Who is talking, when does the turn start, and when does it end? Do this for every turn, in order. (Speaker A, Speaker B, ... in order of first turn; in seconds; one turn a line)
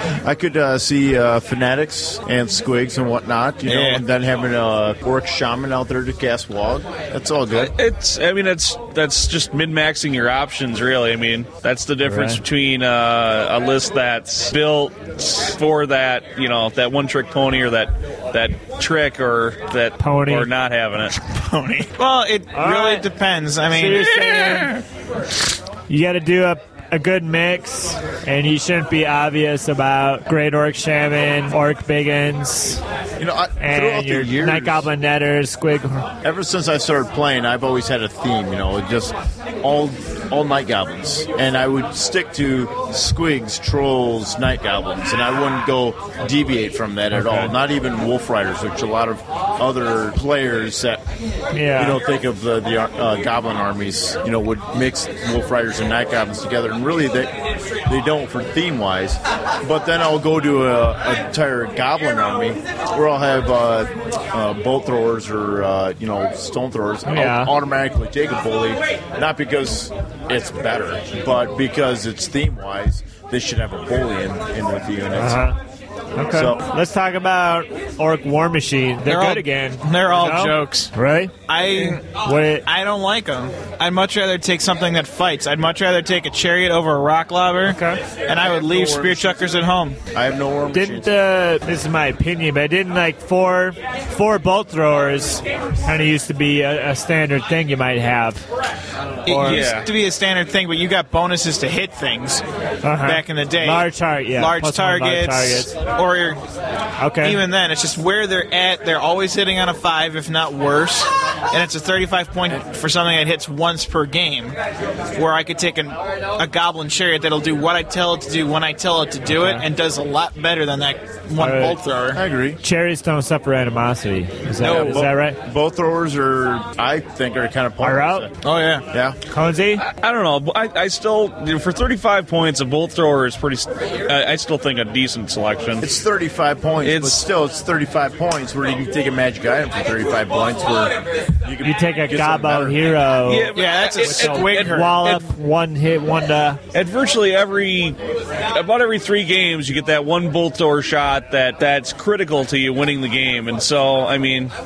Speaker A: 0.2-7.7
Speaker B: 3.7-4.0
Speaker C: 7.5-21.2
Speaker D: 12.0-12.4
Speaker D: 20.0-20.5
Speaker B: 21.2-24.8
Speaker D: 22.6-23.1
Speaker D: 23.7-24.8
Speaker D: 25.9-32.8
Speaker A: 33.2-34.9
Speaker D: 33.6-36.1
Speaker A: 36.2-51.0
Speaker D: 47.1-47.5
Speaker D: 51.5-52.0
Speaker A: 51.8-75.5
Speaker D: 67.1-67.5
Speaker D: 75.1-75.6
Speaker D: 76.2-81.3
Speaker A: 76.2-76.6
Speaker B: 79.0-80.9
Speaker B: 81.5-90.0
Speaker D: 82.1-82.7
Speaker D: 87.7-88.0
Speaker A: 88.4-89.5
Speaker A: 90.1-91.1
Speaker D: 90.7-98.4
Speaker B: 99.2-106.4
Speaker D: 99.3-99.7
Speaker C: 99.5-99.9
Speaker D: 102.8-105.7
Speaker D: 107.0-107.4
Speaker B: 107.2-114.5
Speaker B: 115.1-122.2
Speaker D: 119.3-119.6
Speaker D: 121.4-121.8
Speaker A: 122.1-122.6
Speaker D: 122.6-125.4
Speaker A: 124.6-128.3
Speaker D: 127.8-128.3
Speaker B: 128.4-128.9
Speaker D: 129.3-129.8
Speaker C: 129.8-135.9
Speaker A: 135.8-142.8
Speaker C: 136.8-137.2
Speaker D: 141.6-146.6
Speaker C: 143.2-145.2
Speaker B: 143.5-145.2
Speaker C: 146.7-148.0
Speaker C: 148.5-154.5